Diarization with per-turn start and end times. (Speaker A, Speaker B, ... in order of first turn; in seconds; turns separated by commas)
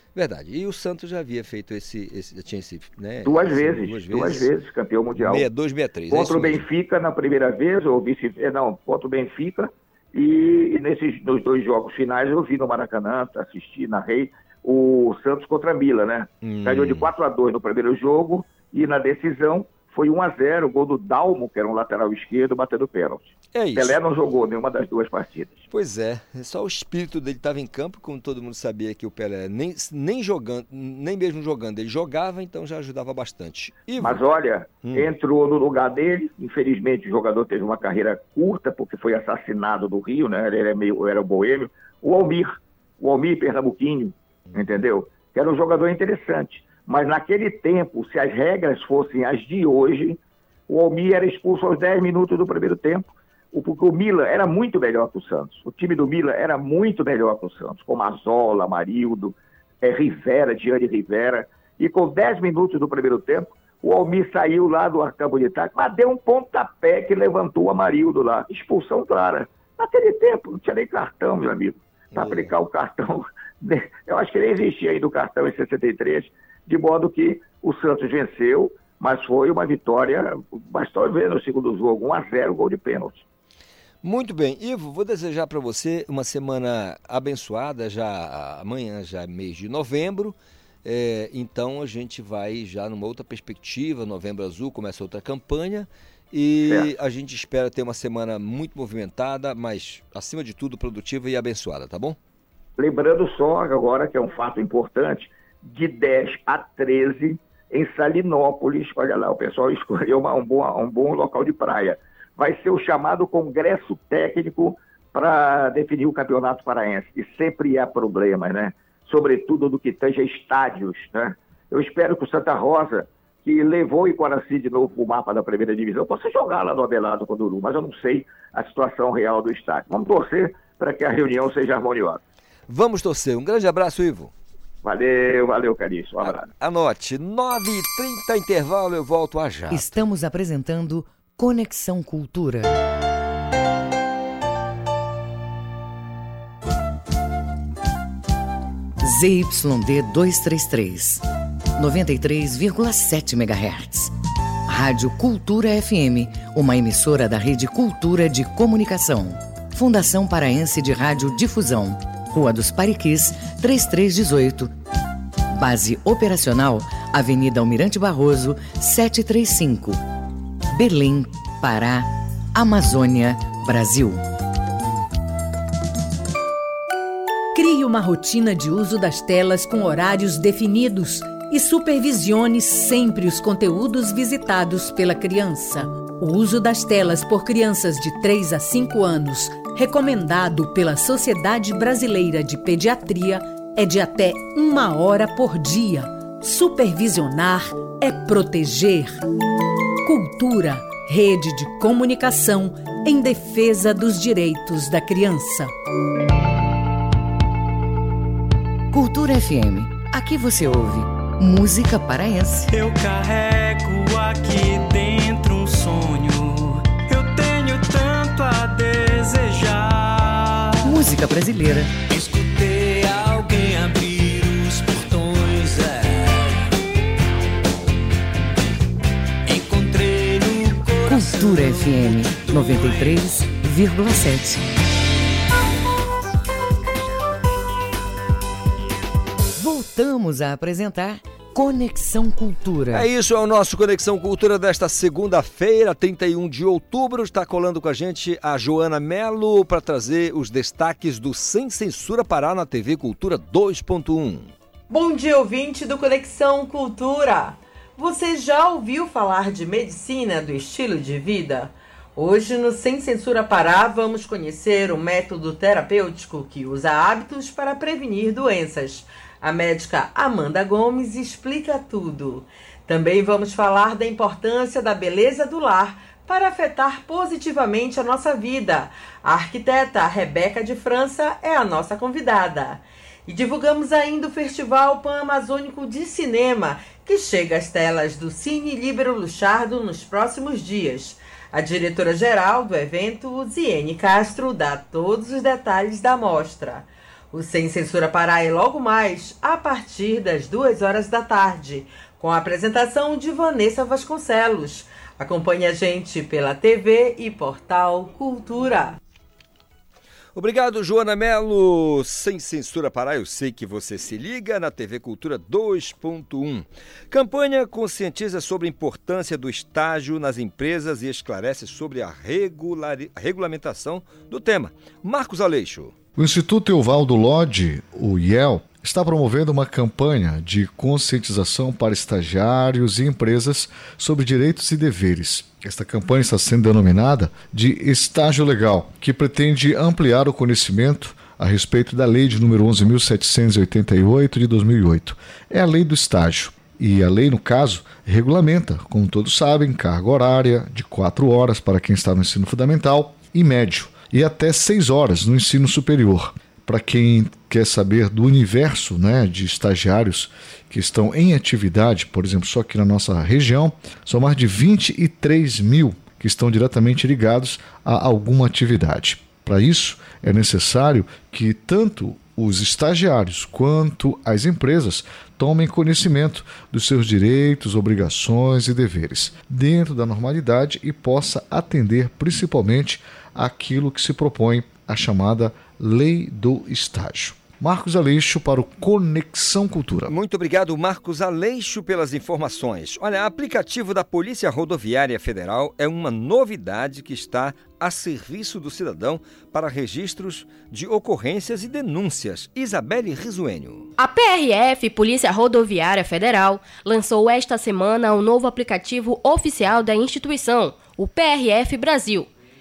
Speaker A: 0.1-4.5, Speaker B: 3.2-5.5, Speaker A: 5.2-6.7, Speaker B: 6.1-25.7, Speaker A: 16.4-17.1, Speaker A: 23.5-24.0, Speaker A: 25.7-34.2, Speaker B: 34.0-83.2, Speaker A: 34.8-35.1, Speaker A: 72.2-72.5, Speaker A: 84.0-102.2, Speaker B: 96.6-96.9, Speaker B: 102.8-132.2, Speaker A: 132.7-134.3, Speaker B: 134.8-136.5, Speaker A: 136.2-139.9, Speaker C: 139.7-142.7, Speaker C: 149.0-151.2, Speaker C: 151.8-154.1, Speaker C: 154.7-164.7, Speaker C: 165.5-170.0, Speaker C: 170.7-174.2, Speaker D: 177.5-199.2, Speaker D: 200.0-205.7, Speaker C: 208.9-212.7, Speaker E: 212.7-221.0, Speaker C: 220.8-221.9, Speaker E: 222.0-226.6, Speaker E: 229.5-233.4, Speaker C: 231.0-234.6, Speaker C: 239.6-243.1, Speaker A: 242.9-254.5, Speaker F: 254.9-309.0, Speaker A: 310.4-325.9, Speaker G: 326.2-390.1, Speaker A: 390.1-403.9, Speaker H: 404.0-412.3